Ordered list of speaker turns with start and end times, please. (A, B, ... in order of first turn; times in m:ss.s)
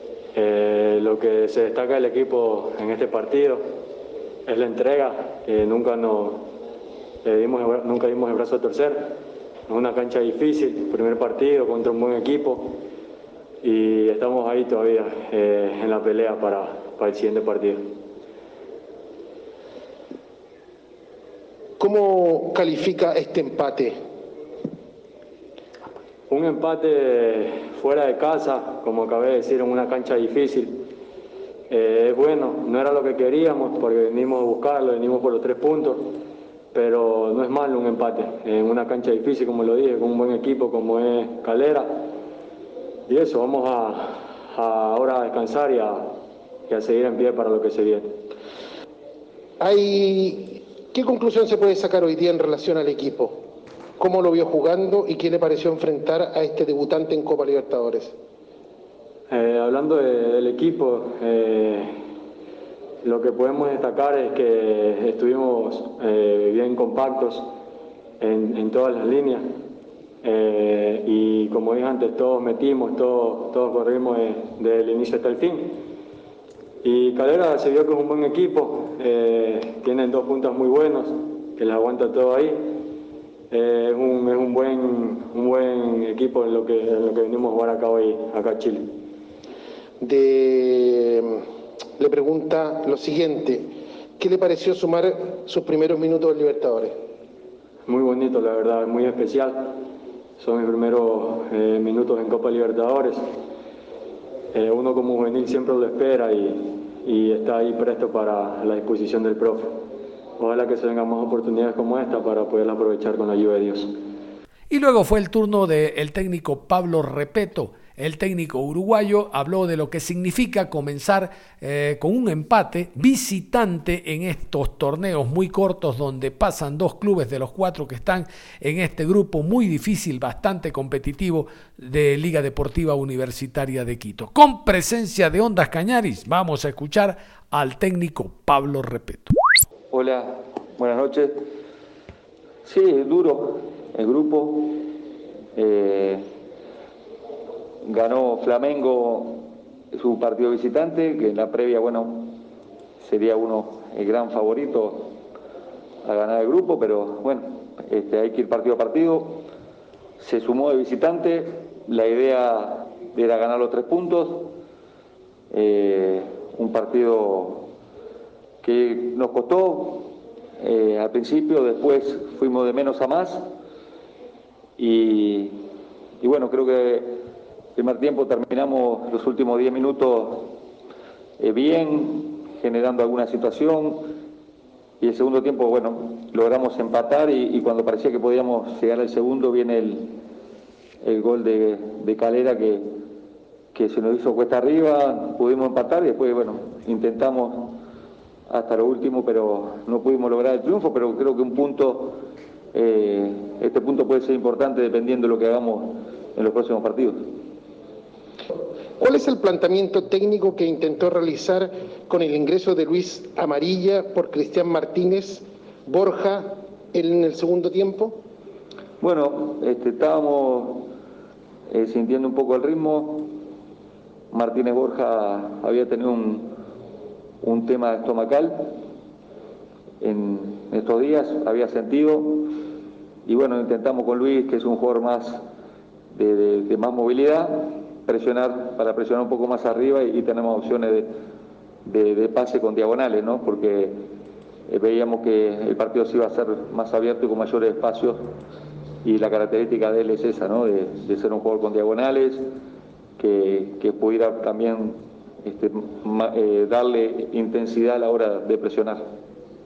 0:00.3-0:03.6 A
0:04.4-0:06.5 A
0:07.2-0:12.8 A
0:13.6-0:17.9 A
0:21.8-0:24.0 B
0:26.3-0:30.9 A
0:31.7-0:36.2 A
0:36.7-0:42.1 A
0:43.1-0:46.1 A
0:46.7-0:48.2 A
0:49.6-0:53.4 B
0:54.0-0:58.1 B
0:59.3-1:01.9 A
1:03.0-1:07.5 A
1:08.2-1:09.4 A
1:10.2-1:15.8 A
1:16.8-1:22.8 A
1:23.5-1:28.9 A
1:30.0-1:31.4 B
1:32.0-1:37.0 B
1:37.8-1:39.8 A
1:40.4-1:43.2 A
1:44.5-1:49.8 A
1:50.4-1:53.9 A
1:54.7-2:19.3 C
2:19.9-2:21.5 D
2:22.6-2:24.8 D
2:25.6-2:26.2 D
2:27.8-2:32.4 D
2:33.0-2:35.1 D
2:36.0-2:39.4 D
2:40.2-2:44.5 D
2:45.5-2:47.7 D
2:48.6-2:53.4 D
2:54.8-2:55.6 D
2:56.2-2:57.2 D
2:57.8-3:00.6 D
3:01.4-3:04.1 D
3:05.0-3:10.2 D
3:11.0-3:12.9 D
3:13.7-3:17.8 D
3:18.5-3:22.2 D
3:22.7-3:27.3 D
3:29.0-3:38.2 B
3:39.0-3:40.9 D
3:41.7-3:43.3 D
3:44.3-3:46.5 D
3:47.4-3:48.7 D
3:50.0-3:52.5 D
3:53.2-3:55.4 D
3:56.1-4:01.1 D
4:01.8-4:04.0 D
4:04.7-4:08.3 D
4:09.0-4:12.4 D
4:13.2-4:19.0 D